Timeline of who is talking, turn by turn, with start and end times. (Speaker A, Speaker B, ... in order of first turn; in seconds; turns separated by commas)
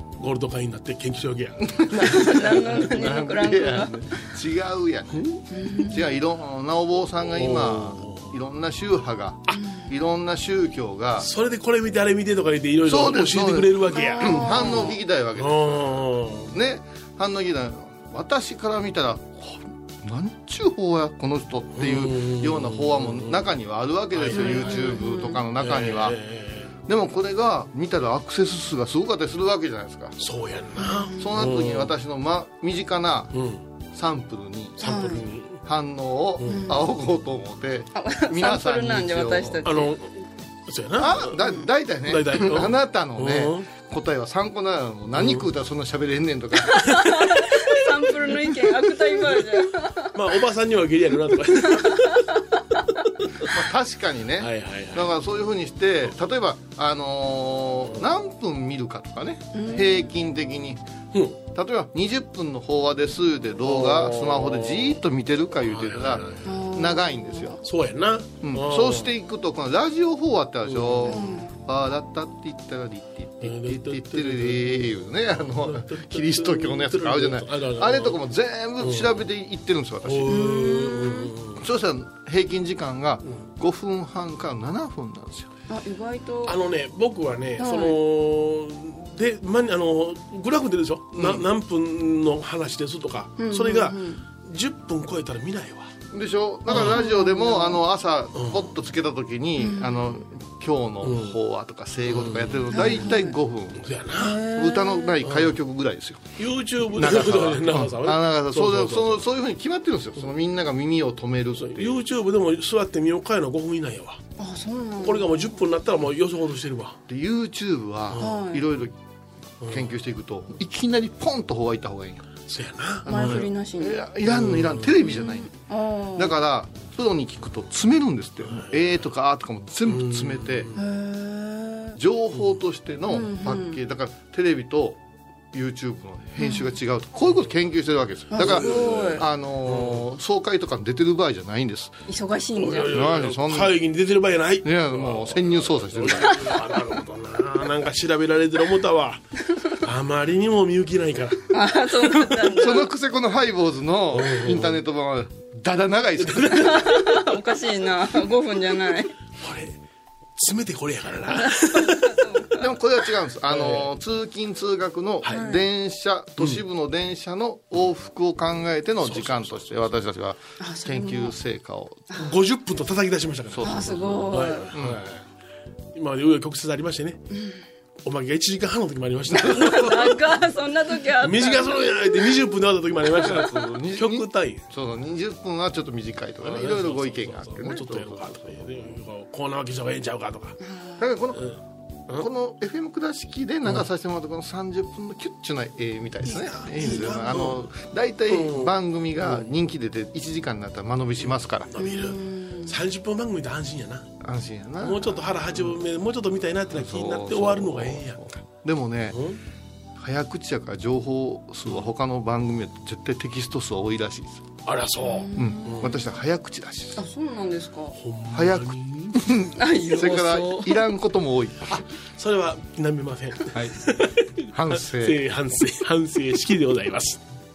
Speaker A: 0.2-2.9, Speaker B: 1.7-5.3, Speaker C: 1.9-4.0, Speaker A: 5.1-5.9, Speaker C: 5.5-6.0, Speaker B: 5.8-11.3, Speaker A: 7.3-8.3, Speaker C: 9.5-9.9, Speaker A: 11.2-16.5, Speaker B: 12.8-26.2, Speaker C: 13.9-15.0, Speaker A: 21.8-23.5, Speaker A: 24.1-24.9, Speaker C: 24.3-25.4, Speaker A: 25.6-26.7, Speaker B: 26.9-30.2, Speaker A: 30.2-31.9, Speaker C: 30.8-31.3, Speaker B: 31.2-33.4, Speaker A: 33.3-33.6, Speaker B: 33.9-35.0, Speaker C: 34.8-35.2, Speaker A: 34.8-35.6, Speaker B: 35.6-39.6, Speaker A: 36.4-36.7, Speaker C: 36.4-36.8, Speaker C: 37.9-39.9, Speaker A: 39.6-41.4, Speaker B: 41.0-47.1, Speaker A: 42.0-43.7, Speaker A: 45.2-45.5, Speaker C: 46.7-50.1, Speaker A: 50.1-52.4, Speaker C: 51.5-52.4, Speaker B: 53.5-60.8, Speaker A: 54.4-55.1, Speaker C: 59.5-60.1, Speaker A: 61.1-61.4, Speaker B: 61.5-67.6, Speaker A: 63.6-65.0, Speaker A: 65.7-66.5, Speaker C: 66.4-67.6, Speaker A: 67.6-69.1, Speaker B: 68.4-80.7, Speaker A: 70.6-71.2, Speaker C: 71.1-71.5, Speaker A: 73.4-79.1, Speaker A: 80.0-81.6, Speaker C: 80.3-81.3, Speaker B: 81.6-85.5, Speaker C: 85.7-86.6, Speaker A: 86.4-95.9, Speaker C: 87.6-88.0, Speaker B: 91.1-91.5, Speaker C: 93.4-94.2, Speaker B: 96.1-106.4, Speaker A: 96.7-97.0, Speaker C: 96.7-97.8, Speaker A: 98.3-98.7, Speaker C: 99.6-100.2, Speaker A: 101.0-101.4, Speaker A: 102.1-103.0, Speaker C: 102.7-103.3, Speaker A: 103.8-104.5, Speaker C: 104.2-105.2, Speaker A: 105.2-105.6, Speaker A: 106.4-109.2, Speaker B: 106.9-112.0, Speaker A: 111.6-114.2, Speaker C: 114.4-115.3, Speaker A: 115.0-117.0, Speaker B: 117.1-118.9, Speaker A: 118.1-118.3, Speaker C: 118.2-118.6, Speaker A: 119.6-119.9, Speaker B: 119.7-122.3, Speaker A: 122.5-123.5, Speaker B: 123.0-125.5, Speaker C: 123.0-124.0, Speaker A: 124.2-124.9, Speaker C: 125.0-126.4, Speaker B: 126.1-130.7, Speaker A: 128.5-128.8, Speaker A: 129.9-130.8, Speaker C: 130.8-132.0, Speaker B: 131.9-135.0, Speaker C: 133.1-133.8, Speaker B: 135.5-141.9, Speaker C: 136.4-136.7, Speaker C: 138.3-139.2, Speaker A: 138.4-140.0, Speaker C: 142.1-143.1, Speaker A: 142.6-152.6, Speaker B: 142.8-143.8, Speaker B: 144.6-146.5, Speaker C: 151.5-152.9, Speaker B: 152.5-156.8, Speaker A: 154.1-154.8, Speaker A: 156.2-157.2, Speaker C: 156.5-159.1, Speaker A: 159.4-159.8, Speaker A: 160.4-162.3, Speaker C: 161.4-162.6, Speaker B: 162.6-172.0, Speaker A: 163.5-163.9, Speaker A: 165.2-165.5, Speaker C: 165.3-165.6, Speaker A: 169.0-169.8, Speaker C: 170.6-171.3, Speaker A: 172.2-175.2, Speaker B: 173.5-175.0, Speaker C: 173.6-174.7, Speaker A: 175.9-177.2, Speaker C: 177.3-177.6, Speaker A: 178.0-180.2, Speaker C: 179.5-182.3, Speaker A: 181.2-184.6, Speaker B: 183.2-188.6, Speaker A: 186.4-190.6, Speaker C: 190.6-191.0, Speaker B: 191.0-191.5, Speaker A: 191.3-192.3, Speaker B: 192.1-201.7, Speaker A: 196.2-197.7, Speaker A: 198.3-199.5, Speaker A: 201.2-204.1, Speaker C: 201.8-202.8, Speaker B: 204.2-205.6, Speaker A: 204.8-208.3, Speaker B: 206.7-209.2, Speaker A: 209.1-209.4, Speaker B: 209.9-214.5, Speaker A: 214.6-216.0, Speaker C: 215.1-215.8, Speaker B: 215.3-217.0, Speaker C: 216.9-217.9, Speaker A: 217.9-219.4, Speaker B: 218.3-221.8, Speaker C: 219.6-220.8, Speaker A: 221.8-227.2, Speaker B: 224.5-225.2